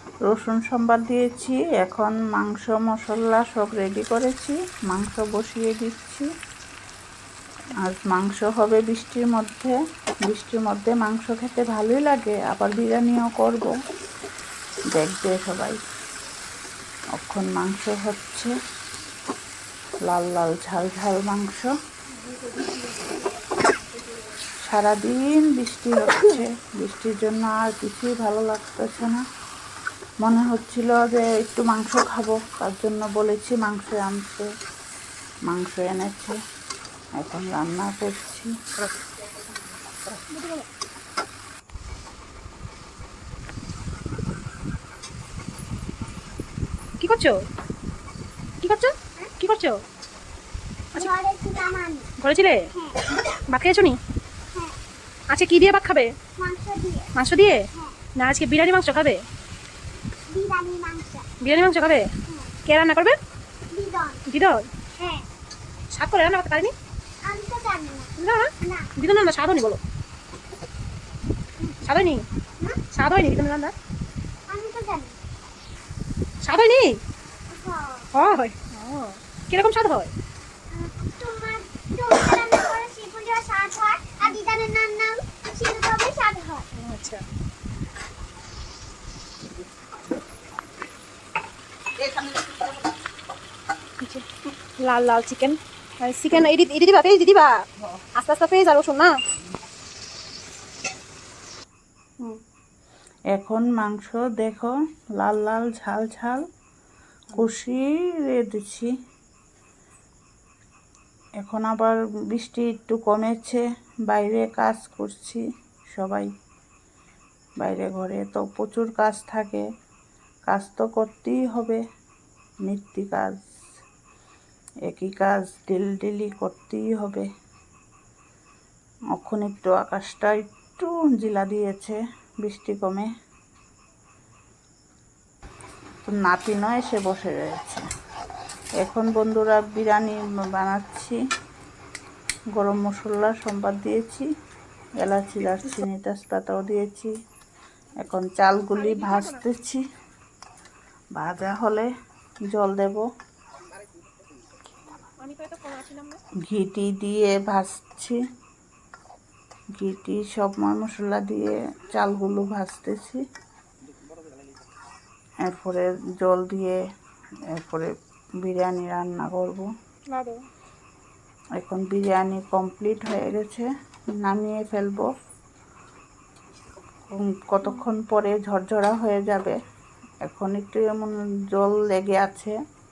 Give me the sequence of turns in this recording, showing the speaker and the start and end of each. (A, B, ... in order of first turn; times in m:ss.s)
0:00.3-0:06.3 A
0:07.8-0:13.7 A
0:15.0-0:15.8 A
0:17.2-0:18.5 A
0:20.1-0:21.7 A
0:22.4-0:23.1 B
0:24.6-0:29.2 A
0:30.2-0:34.5 A
0:35.5-0:36.4 A
0:37.2-0:38.5 A
0:40.1-0:40.6 B
0:47.0-0:47.4 B
0:48.6-0:49.8 B
0:50.9-0:52.1 C
0:52.2-0:52.7 B
0:52.7-0:53.0 C
0:53.3-0:54.0 B
0:55.3-0:56.1 B
0:56.4-0:57.1 C
0:57.1-0:59.2 B
0:57.7-0:58.0 C
1:00.3-1:01.3 C
1:01.4-1:02.1 B
1:02.6-1:03.2 B
1:03.7-1:04.2 C
1:04.3-1:04.7 B
1:05.0-1:05.3 C
1:05.9-1:06.7 B
1:07.2-1:08.9 C
1:08.2-1:09.8 B
1:11.7-1:12.2 B
1:12.9-1:13.7 B
1:14.5-1:15.2 C
1:16.4-1:17.0 B
1:17.5-1:18.1 C
1:18.1-1:20.1 B
1:20.7-1:26.7 C
1:26.8-1:27.2 B
1:34.0-1:39.1 B
1:43.3-1:46.4 A
1:47.3-1:48.9 A
1:51.4-1:55.4 A
1:55.9-1:56.3 A
1:57.6-1:59.6 A
2:00.5-2:01.8 A
2:02.6-2:03.4 A
2:04.9-2:07.3 A
2:09.1-2:13.1 A
2:16.0-2:17.8 A
2:18.8-2:21.2 A
2:22.6-2:24.3 A
2:25.0-2:27.1 A
2:28.0-2:29.8 A
2:28.7-2:29.4 B
2:31.2-2:31.9 A
2:32.5-2:33.0 A
2:35.2-2:36.2 B
2:36.5-2:38.2 A
2:39.8-2:43.2 A
2:45.5-2:46.8 A
2:47.5-2:47.9 A
2:48.4-2:49.6 A
2:50.1-2:50.4 B
2:51.6-2:53.7 A
2:54.2-2:55.1 A
2:57.1-2:59.6 A
3:00.2-3:02.5 A